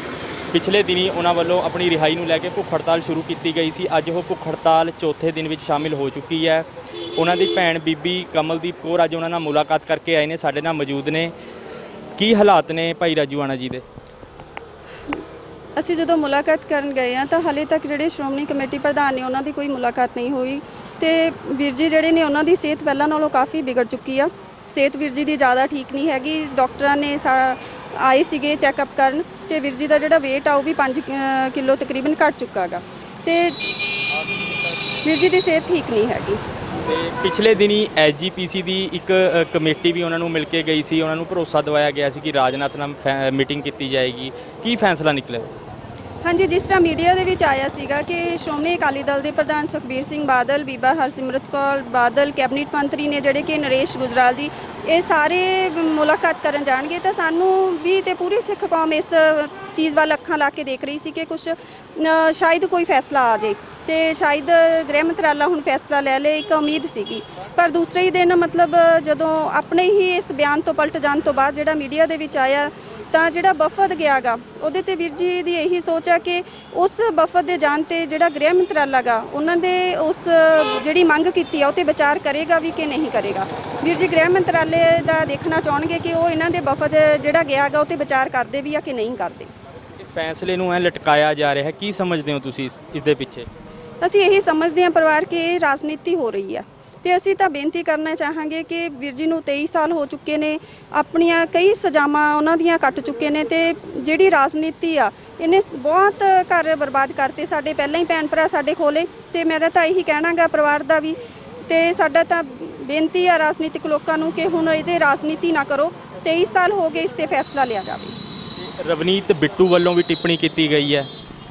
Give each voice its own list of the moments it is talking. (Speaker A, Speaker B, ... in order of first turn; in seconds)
Speaker A: 0.5-11.3, 12.2-13.8, 36.8-45.5, 90.0-93.5, 118.8-121.1
Speaker B: 15.8-33.6, 35.0-36.4, 46.2-89.5, 94.0-118.2